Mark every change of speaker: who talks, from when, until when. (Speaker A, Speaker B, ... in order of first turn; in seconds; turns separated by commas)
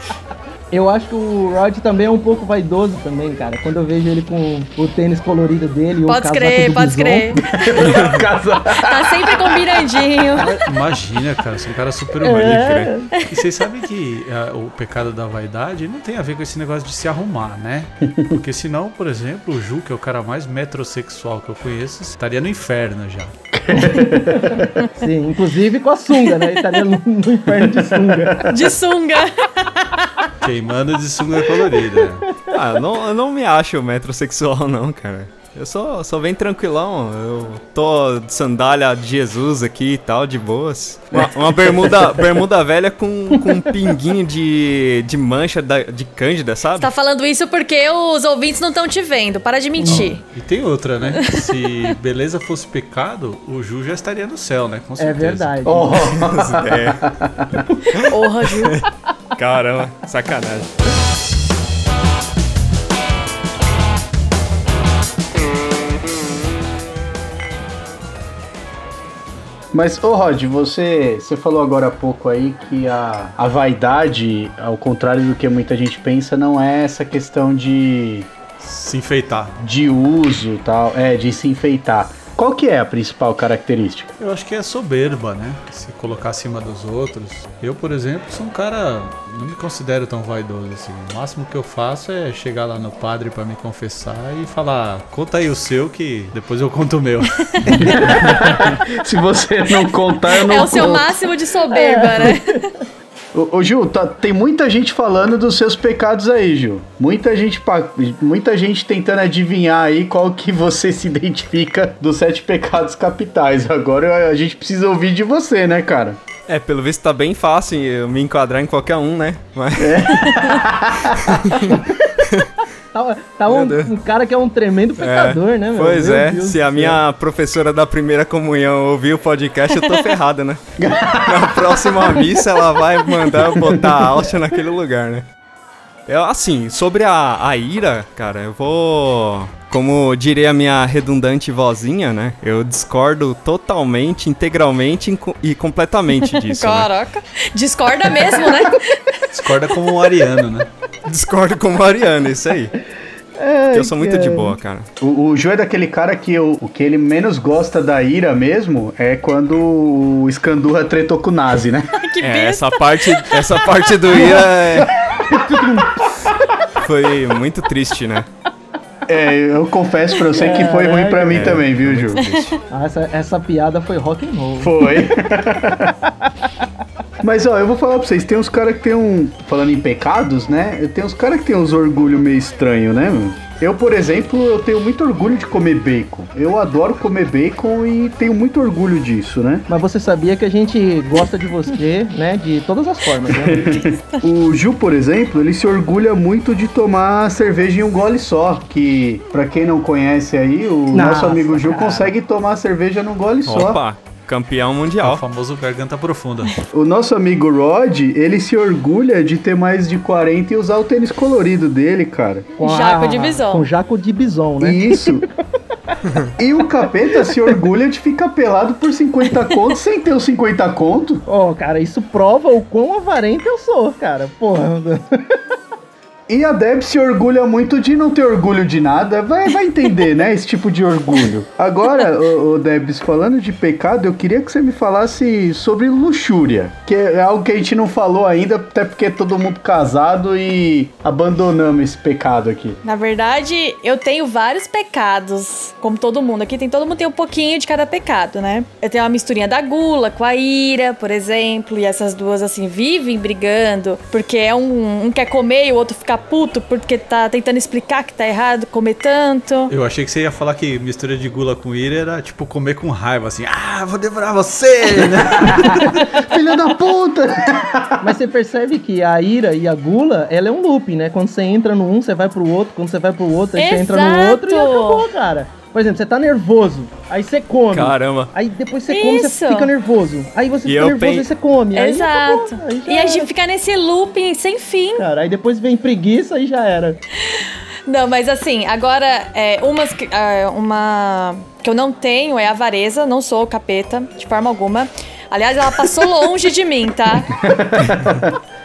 Speaker A: 0.7-7.4, Speaker B: 6.1-7.9, Speaker C: 7.4-9.6, Speaker D: 7.8-8.2, Speaker B: 8.7-10.6, Speaker E: 10.3-23.3, Speaker A: 12.2-13.1, Speaker D: 12.4-12.9, Speaker C: 23.5-24.8, Speaker A: 23.8-28.5, Speaker C: 27.5-28.6, Speaker B: 28.5-29.9, Speaker E: 30.4-32.3, Speaker D: 32.5-46.9, Speaker C: 41.1-42.2, Speaker B: 46.8-50.2, Speaker A: 49.8-50.1, Speaker E: 49.9-55.6, Speaker B: 51.1-51.5, Speaker A: 55.0-56.1, Speaker C: 55.7-57.7, Speaker D: 56.1-57.0, Speaker B: 57.9-58.8, Speaker D: 58.0-58.8, Speaker D: 59.4-60.8, Speaker C: 69.7-78.3, Speaker E: 78.6-79.6, Speaker C: 79.6-84.1, Speaker E: 84.2-98.7, Speaker B: 97.4-98.2, Speaker C: 97.7-101.2, Speaker B: 100.3-102.7, Speaker A: 101.7-102.6, Speaker C: 103.3-116.2, Speaker D: 116.5-120.5, Speaker C: 119.8-121.8, Speaker D: 121.2-122.5, Speaker A: 122.9-127.0, Speaker D: 123.5-123.9, Speaker D: 125.0-130.6, Speaker C: 130.8-132.3, Speaker D: 131.2-135.3, Speaker C: 133.5-134.1, Speaker D: 136.1-146.9, Speaker B: 146.3-149.3, Speaker E: 149.3-150.7, Speaker D: 151.1-152.8, Speaker A: 153.4-154.6, Speaker D: 153.7-154.9, Speaker C: 155.0-161.9, Speaker B: 162.0-163.9, Speaker D: 162.2-164.9, Speaker A: 164.4-166.3, Speaker D: 166.8-168.3, Speaker C: 169.1-172.2, Speaker A: 170.3-171.7, Speaker D: 171.3-172.6, Speaker B: 172.2-172.5, Speaker A: 172.7-175.0, Speaker C: 174.6-176.0, Speaker C: 177.2-189.7, Speaker A: 189.7-193.9, Speaker C: 193.3-203.8, Speaker A: 200.9-202.1, Speaker D: 203.5-205.2, Speaker E: 205.0-206.6, Speaker C: 206.7-212.5, Speaker B: 212.6-213.7, Speaker A: 212.6-215.2, Speaker C: 214.6-215.3, Speaker C: 216.4-221.2, Speaker A: 221.3-225.4, Speaker C: 226.3-242.8, Speaker B: 242.8-259.7, Speaker E: 259.7-266.1, Speaker C: 265.3-268.1, Speaker A: 268.0-283.3, Speaker B: 273.6-275.1, Speaker D: 277.7-278.3, Speaker B: 278.9-279.7, Speaker D: 280.6-281.3, Speaker B: 281.7-285.1, Speaker A: 285.0-287.0, Speaker B: 287.2-297.4, Speaker C: 297.4-298.3